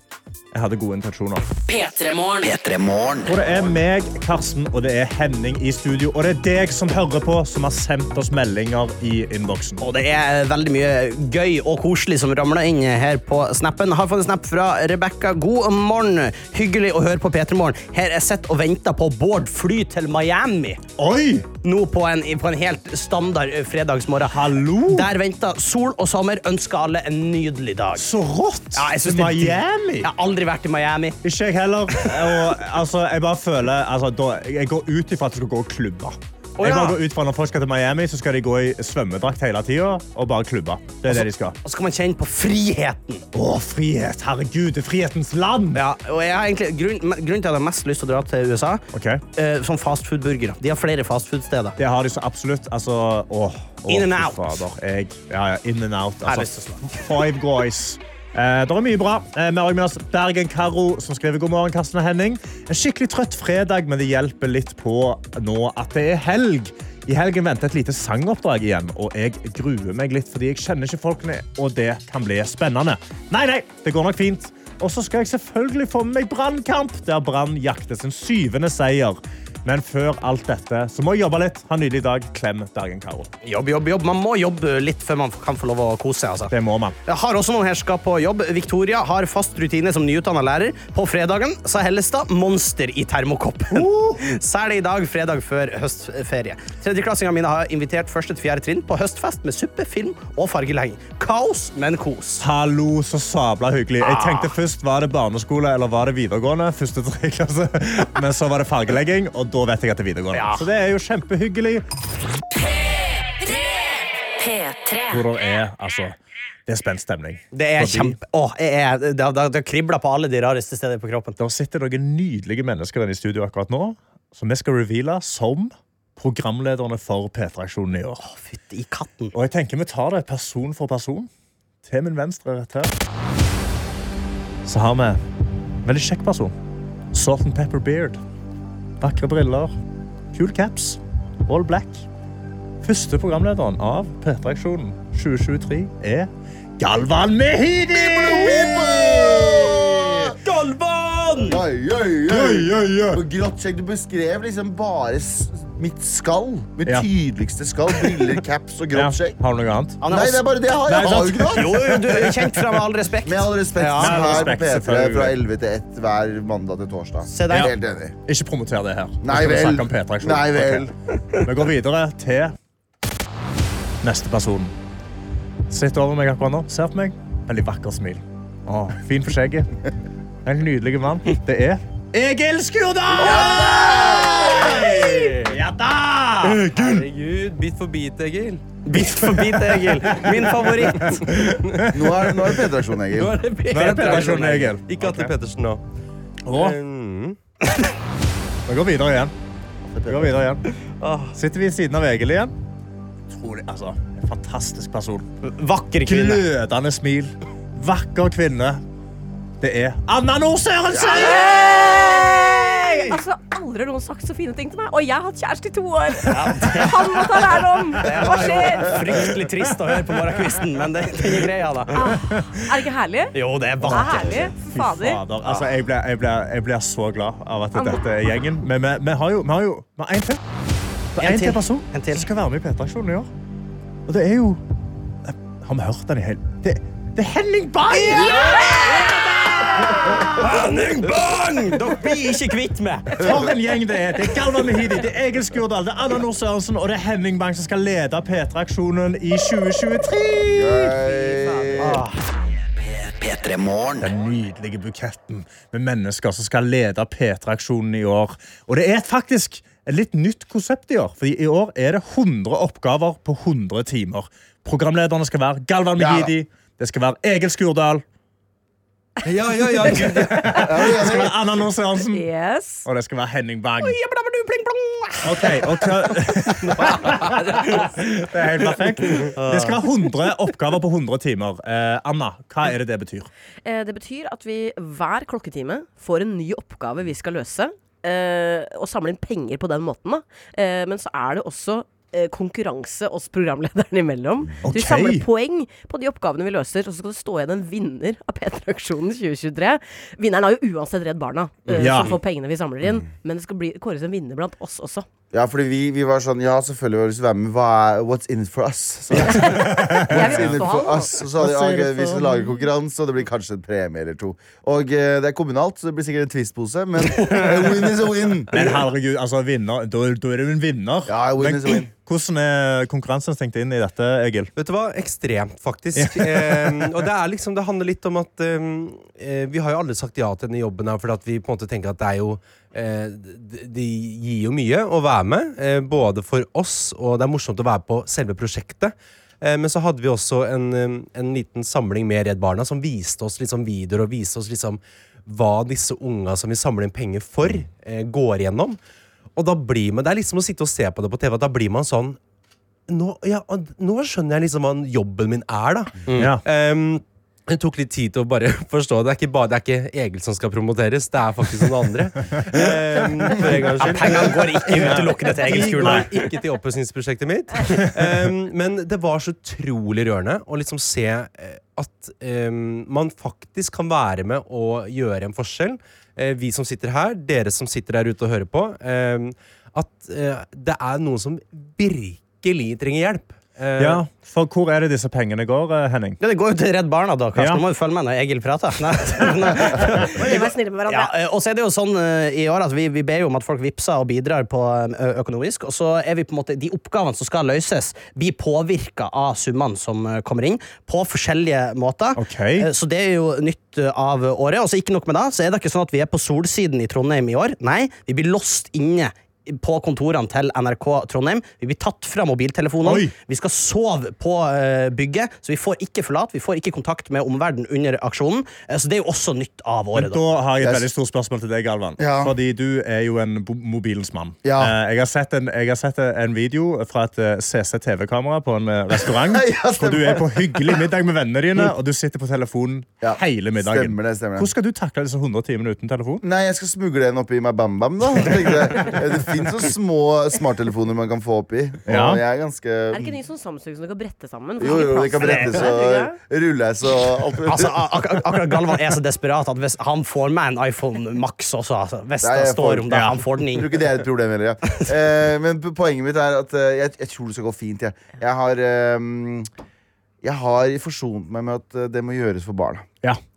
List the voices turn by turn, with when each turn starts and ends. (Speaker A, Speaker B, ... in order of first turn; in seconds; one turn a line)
Speaker A: 0.5-1.4
Speaker B: 1.7-2.5
Speaker C: 2.4-3.4
Speaker A: 3.2-9.8
Speaker D: 9.8-20.8
Speaker A: 21.0-21.5
Speaker D: 21.6-28.1
Speaker A: 24.2-25.1
Speaker A: 28.0-30.1
Speaker D: 28.7-31.2
Speaker A: 31.2-41.5
Speaker D: 31.9-32.4
Speaker D: 36.6-37.0
Speaker D: 41.1-43.2
Speaker A: 43.3-45.8
Speaker D: 45.7-48.8
Speaker A: 48.9-49.2
Speaker D: 49.3-51.8
Speaker A: 51.8-83.3
Speaker D: 53.9-54.5
Speaker D: 56.2-57.0
Speaker D: 83.4-86.5
Speaker A: 86.5-87.0
Speaker D: 87.0-102.4
Speaker A: 93.7-94.2
Speaker A: 102.4-111.8
Speaker D: 104.0-104.5
Speaker D: 110.3-110.6
Speaker B: 113.3-115.3
Speaker A: 115.1-116.1
Speaker A: 116.7-118.2
Speaker D: 117.5-121.3
Speaker A: 121.4-128.2
Speaker D: 128.2-129.3
Speaker A: 129.3-131.3
Speaker A: 131.8-132.9
Speaker A: 134.6-135.2
Speaker A: 135.8-136.5
Speaker A: 137.1-138.2
Speaker A: 139.0-139.7
Speaker A: 140.3-142.0
Speaker A: 142.8-150.0
Speaker E: 147.9-150.3
Speaker D: 150.2-151.6
Speaker E: 151.5-159.4
Speaker A: 152.3-153.2
Speaker A: 158.9-160.0
Speaker D: 160.0-160.4
Speaker E: 160.1-162.1
Speaker A: 160.9-162.6
Speaker D: 161.5-164.5
Speaker E: 163.2-168.1
Speaker A: 164.0-165.3
Speaker D: 167.3-167.7
Speaker A: 168.2-172.5
Speaker E: 169.2-170.9
Speaker A: 174.0-174.7
Speaker A: 175.7-179.7
Speaker A: 180.4-187.0
Speaker F: 183.2-185.5
Speaker D: 183.3-184.6
Speaker F: 186.4-188.7
Speaker D: 188.8-191.2
Speaker A: 189.3-190.4
Speaker A: 191.1-192.5
Speaker F: 191.3-191.8
Speaker E: 191.9-193.4
Speaker F: 193.1-195.8
Speaker A: 193.7-195.3
Speaker D: 193.7-194.7
Speaker A: 196.5-196.8
Speaker F: 196.5-197.4
Speaker A: 198.7-199.3
Speaker E: 199.9-200.3
Speaker A: 200.1-200.6
Speaker D: 201.0-201.3
Speaker A: 201.3-202.5
Speaker A: 203.3-205.2
Speaker D: 205.4-206.4
Speaker A: 206.1-208.8
Speaker A: 209.6-213.2
Speaker D: 211.0-211.4
Speaker G: 211.1-219.0
Speaker D: 216.2-217.2
Speaker D: 218.0-222.1
Speaker A: 218.0-219.6
Speaker G: 221.9-225.2
Speaker A: 222.2-222.6
Speaker D: 223.3-224.5
Speaker A: 224.7-230.4
Speaker G: 227.7-228.0
Speaker A: 231.2-233.3
Speaker D: 231.2-232.2
Speaker A: 234.1-234.6
Speaker A: 235.2-240.8
Speaker D: 238.2-243.2
Speaker A: 243.2-250.9
Speaker E: 250.5-252.0
Speaker D: 251.8-252.1
Speaker C: 252.8-254.1
Speaker A: 254.0-268.0
Speaker E: 266.0-266.3
Speaker F: 269.2-270.8
Speaker G: 270.1-270.6
Speaker A: 270.3-272.2
Speaker E: 270.5-271.4
Speaker G: 272.0-272.9
Speaker A: 272.8-273.9
Speaker D: 273.8-275.6
Speaker A: 275.2-283.3
Speaker D: 276.7-277.9
Speaker F: 276.8-277.4
Speaker D: 279.0-279.7
Speaker G: 283.6-305.1
Speaker A: 294.6-295.2
Speaker A: 301.7-302.1
Speaker E: 305.3-318.7
Speaker A: 309.1-310.6
Speaker G: 309.3-311.2
Speaker A: 311.4-312.3
Speaker D: 317.1-317.6
Speaker A: 318.5-324.5
Speaker E: 321.1-321.9
Speaker F: 324.6-348.8
Speaker A: 325.9-327.0
Speaker F: 349.4-352.2
Speaker F: 352.9-384.0
Speaker D: 356.1-356.3
Speaker A: 356.1-356.4
Speaker D: 363.8-366.1
Speaker A: 364.9-366.1
Speaker A: 383.8-386.2
Speaker D: 386.2-420.2
Speaker A: 387.4-387.6
Speaker G: 389.7-391.1
Speaker A: 402.2-402.7
Speaker A: 412.8-413.1
Speaker A: 419.9-436.2
Speaker E: 420.6-420.9
Speaker E: 422.0-422.3
Speaker E: 424.4-424.7
Speaker E: 429.0-430.9
Speaker E: 433.0-434.5
Speaker E: 436.2-443.2
Speaker A: 441.9-442.2
Speaker G: 442.9-446.1
Speaker E: 444.6-448.0
Speaker D: 445.2-445.5
Speaker D: 447.4-453.7
Speaker E: 452.2-459.5
Speaker A: 452.9-453.2
Speaker E: 460.2-462.9